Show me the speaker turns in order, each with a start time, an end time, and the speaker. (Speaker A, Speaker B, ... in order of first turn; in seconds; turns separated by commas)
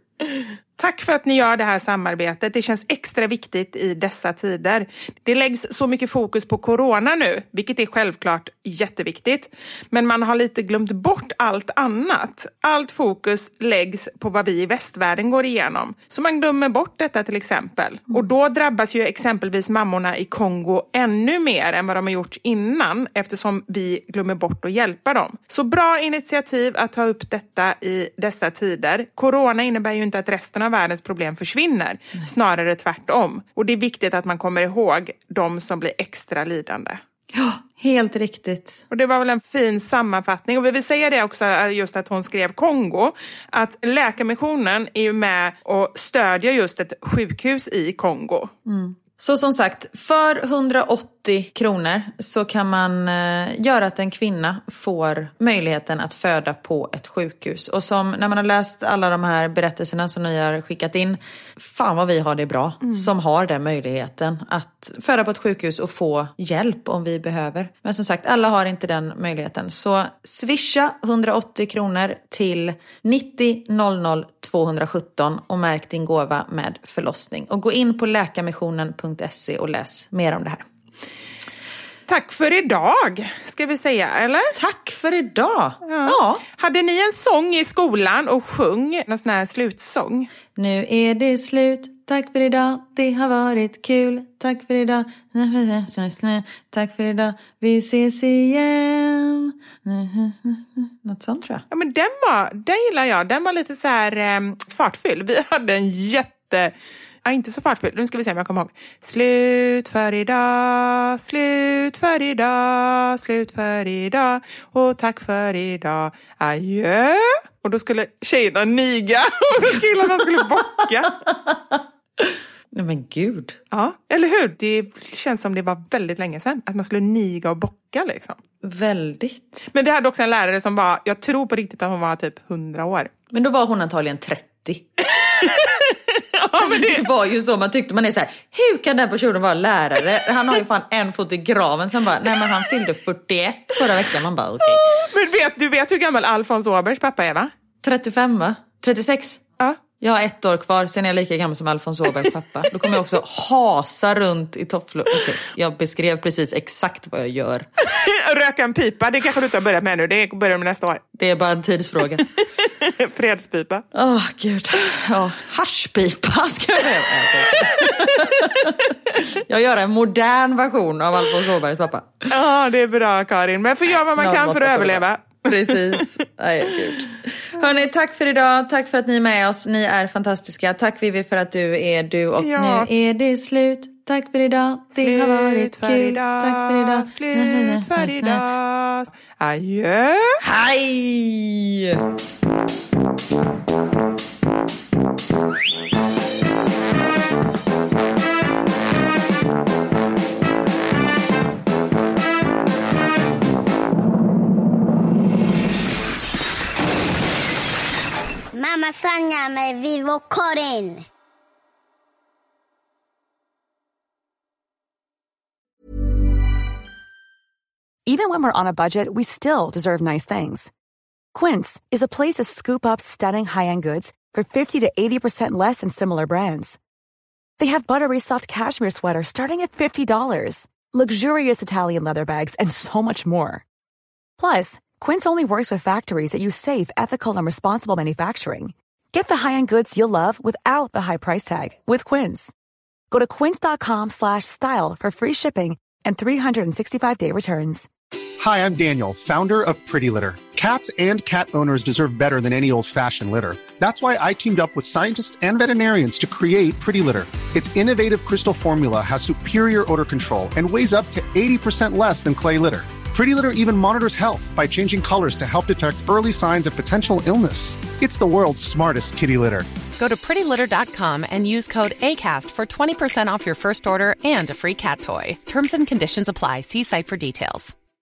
Speaker A: 0.2-37.0, Speaker B: 37.3-38.8, Speaker A: 38.9-48.5, Speaker B: 48.7-80.7, Speaker A: 62.8-63.1, Speaker A: 82.1-84.5, Speaker B: 84.5-86.4, Speaker A: 85.8-90.3, Speaker B: 90.6-101.6, Speaker A: 101.7-121.2, Speaker B: 121.5-123.6, Speaker A: 123.7-128.4, Speaker B: 128.6-129.7, Speaker A: 129.7-133.1, Speaker B: 133.3-134.9, Speaker A: 135.1-137.0, Speaker B: 136.6-144.8, Speaker A: 144.7-147.5, Speaker B: 147.8-149.4, Speaker B: 150.0-157.7, Speaker A: 152.2-153.0, Speaker A: 157.8-161.0, Speaker B: 161.2-162.3, Speaker A: 162.2-163.9, Speaker B: 163.9-172.3, Speaker A: 167.5-168.8, Speaker A: 172.3-176.1, Speaker B: 174.2-188.4, Speaker A: 182.4-182.9, Speaker A: 184.9-190.4, Speaker B: 190.4-192.0, Speaker C: 208.5-211.1, Speaker D: 218.1-220.7, Speaker D: 221.3-226.8, Speaker D: 227.6-233.6, Speaker D: 234.4-242.5, Speaker D: 243.1-247.9, Speaker E: 248.4-269.7, Speaker F: 270.0-277.7